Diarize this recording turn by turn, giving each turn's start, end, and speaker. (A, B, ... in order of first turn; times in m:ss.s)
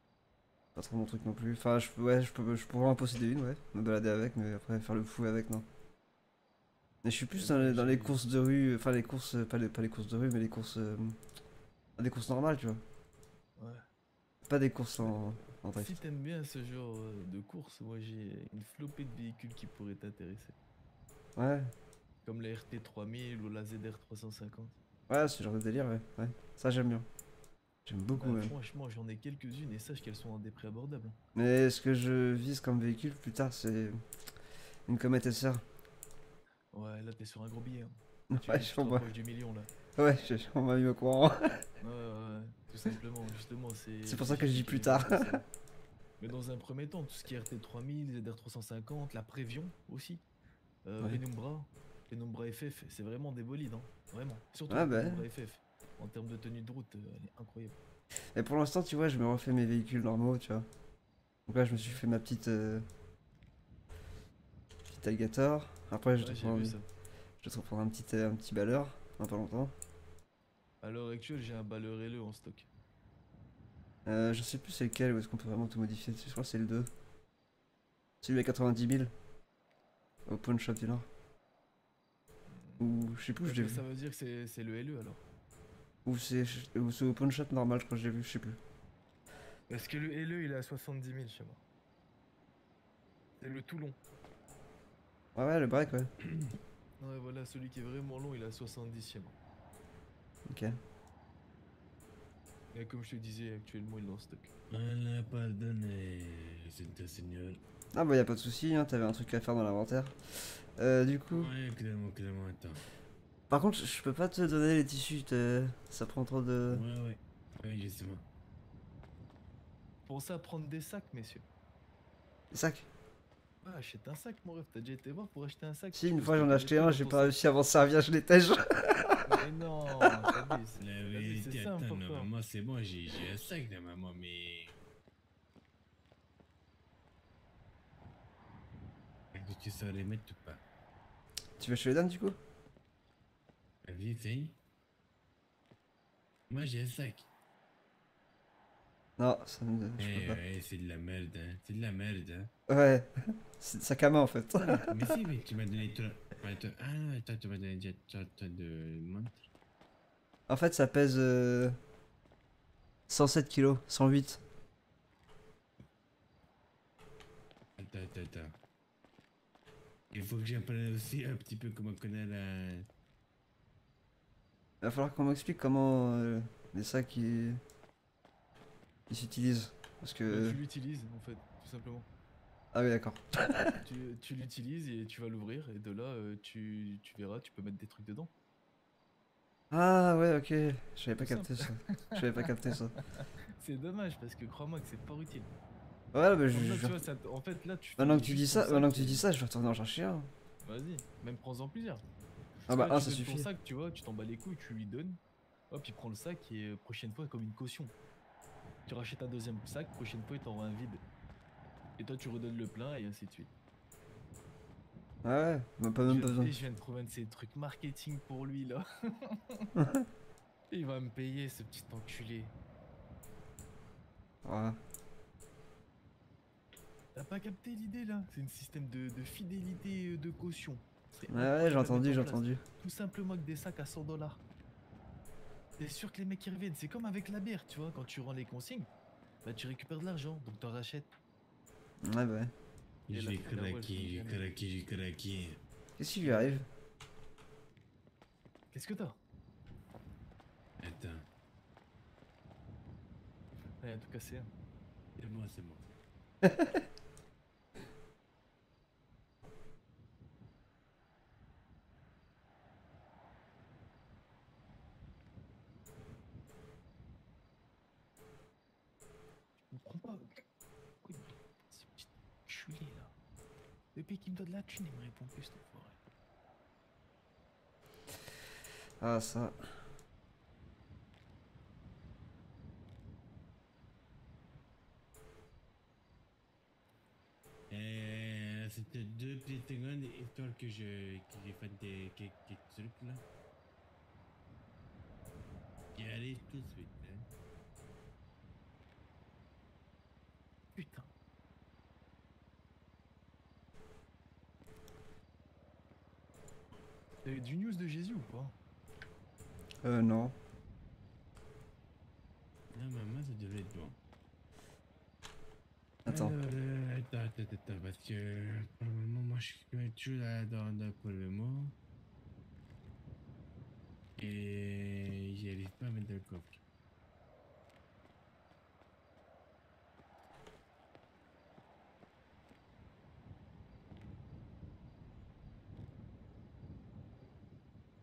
0:00.8-0:05.7 A
0:07.0-0:11.2 A
0:07.4-0:08.2 B
0:12.0-0:12.8 A
0:13.6-0:13.8 B
0:14.5-0:16.0 A
0:15.7-0:20.6 B
0:21.4-0:21.7 A
0:22.2-0:24.8 B
0:25.1-0:27.1 A
0:27.9-0:28.5 A
0:28.1-0:31.2 B
0:31.4-0:34.0 A
0:34.9-0:35.6 A
0:36.7-0:39.7 B
0:38.3-0:39.0 A
0:40.0-0:41.6 A
0:41.8-0:45.4 B
0:44.1-0:45.4 A
0:46.2-0:50.2 B
0:50.9-0:57.8 B
0:54.7-0:55.2 A
0:58.4-1:00.7 A
1:01.5-1:02.9 A
1:01.7-1:02.0 B
1:04.9-1:06.8 A
1:06.2-1:06.9 B
1:07.4-1:09.7 A
1:10.8-1:12.7 B
1:14.0-1:16.9 A
1:18.2-1:19.1 A
1:20.3-1:21.1 A
1:22.5-1:22.8 B
1:22.8-1:23.8 A
1:23.4-1:25.2 B
1:26.0-1:28.6 A
1:29.7-1:31.6 B
1:33.4-1:34.0 B
1:35.4-1:36.1 A
1:36.2-1:36.5 C
1:37.0-1:39.4 B
1:40.5-1:40.8 A
1:42.7-1:44.5 B
1:44.7-1:47.6 C
1:47.9-1:51.5 A
1:51.3-1:52.8 C
1:53.5-1:56.8 A
1:56.7-1:58.2 C
2:00.1-2:01.4 B
2:02.5-2:02.9 A
2:03.6-2:07.4 B
2:05.9-2:09.3 A
2:09.2-2:12.3 B
2:10.8-2:14.8 C
2:19.3-2:20.6 C
2:21.6-2:22.4 A
2:23.8-2:24.6 C
2:26.5-2:27.3 C
2:29.2-2:30.4 A
2:30.0-2:32.5 C
2:32.7-2:35.1 A
2:34.6-2:39.5 C
2:40.5-2:41.8 A
2:43.1-2:44.4 A
2:47.8-2:48.6 C
2:50.1-2:52.9 C
2:54.8-2:57.6 A
2:59.1-3:00.6 A
3:00.3-3:02.1 B
3:02.7-3:03.8 A
3:03.8-3:08.3 B
3:09.7-3:12.9 A
3:11.2-3:12.5 B
3:13.2-3:15.5 B
3:16.1-3:17.0 A
3:16.5-3:19.3 B
3:18.0-3:20.3 A
3:20.6-3:22.0 B
3:22.7-3:23.5 A
3:22.7-3:25.2 B
3:25.7-3:27.9 B
3:28.9-3:31.0 B
3:32.0-3:33.5 B
3:35.2-3:36.6 A
3:36.1-3:39.7 B
3:39.8-3:40.1 A
3:40.7-3:42.5 B
3:44.4-3:44.8 A
3:47.2-3:54.4 B
3:51.3-3:52.6 A
3:55.8-3:58.9 B
3:59.4-4:01.1 B
4:02.0-4:02.5 A
4:03.1-4:05.6 C
4:03.1-4:04.5 B
4:06.0-4:06.6 A
4:06.2-4:06.6 B
4:08.7-4:09.2 B
4:10.8-4:11.2 C
4:13.8-4:14.5 B
4:15.2-4:15.9 C
4:16.4-4:16.8 A
4:29.7-4:30.4 B
4:31.0-4:33.1 B
4:34.0-4:36.0 B
4:39.0-4:39.6 A
4:47.7-4:53.2 C
4:56.0-4:57.3 C
5:00.8-5:01.1 B
5:07.2-5:08.6 B
5:09.8-5:10.4 A
5:12.7-5:14.0 C
5:16.0-5:16.3 A
5:16.1-5:21.8 C
5:24.2-5:26.6 C